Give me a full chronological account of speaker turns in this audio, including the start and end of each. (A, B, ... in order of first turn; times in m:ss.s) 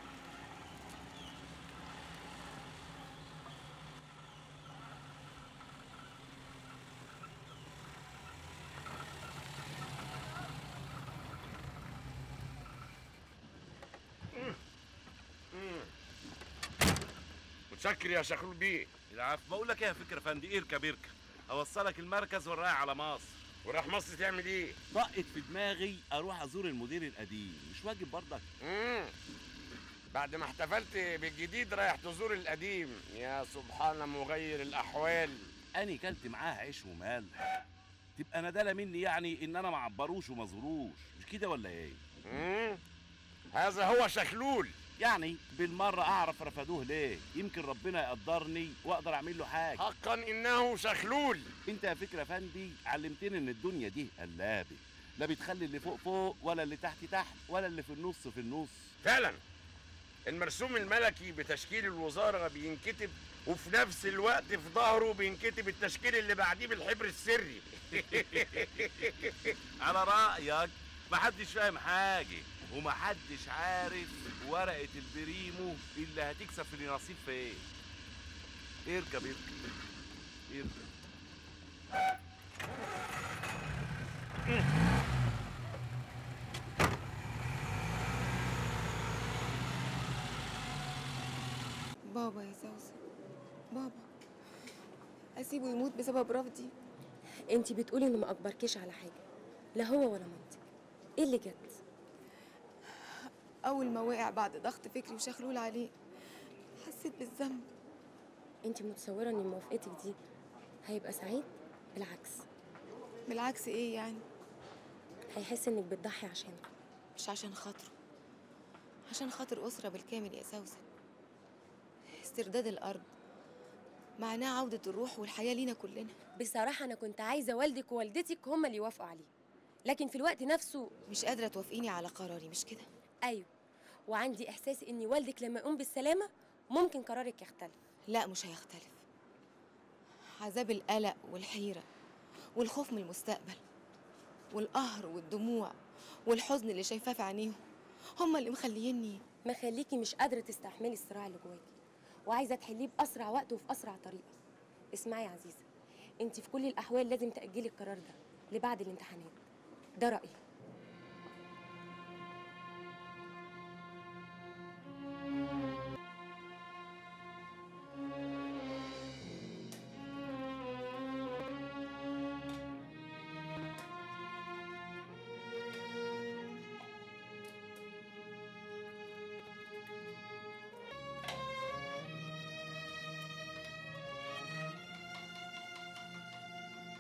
0:15.5-0:15.9 A
0:17.7-0:18.9 A
0:19.1-0:23.5 B
0:23.6-0:24.8 A
0:24.9-0:28.4 B
0:28.6-0:29.1 A
0:30.1-0:35.5 A
0:35.7-0:37.6 B
0:38.2-0:42.0 B
0:42.2-0:42.8 A
0:43.5-0:44.8 A
0:45.0-0:49.8 B
0:49.8-0:51.5 A
0:51.6-0:58.9 B
0:59.0-0:59.4 A
1:00.2-1:09.3 A
1:08.0-1:09.0 B
1:09.8-1:17.6 B
1:18.9-1:19.7 B
1:20.5-1:20.8 B
1:32.1-1:33.0 C
1:33.7-1:34.1 C
1:35.4-1:36.7 C
1:37.5-1:39.2 D
1:39.8-1:40.6 D
1:41.2-1:41.8 D
1:43.6-1:45.9 C
1:46.8-1:47.7 C
1:48.6-1:50.1 D
1:50.8-1:52.4 D
1:53.3-1:54.2 C
1:55.3-1:56.6 D
1:57.2-1:57.9 C
1:59.1-2:00.8 C
2:02.1-2:03.1 C
2:04.2-2:06.1 C
2:06.4-2:09.3 D
2:09.8-2:11.0 D
2:11.1-2:12.8 C
2:14.1-2:17.8 D
2:18.1-2:19.0 C
2:20.4-2:21.8 C
2:22.6-2:23.6 C
2:24.5-2:25.8 C
2:26.2-2:27.6 C
2:28.2-2:29.2 C
2:29.4-2:31.7 D
2:32.3-2:34.3 D
2:35.0-2:35.6 D
2:36.2-2:39.4 D
2:40.0-2:40.3 D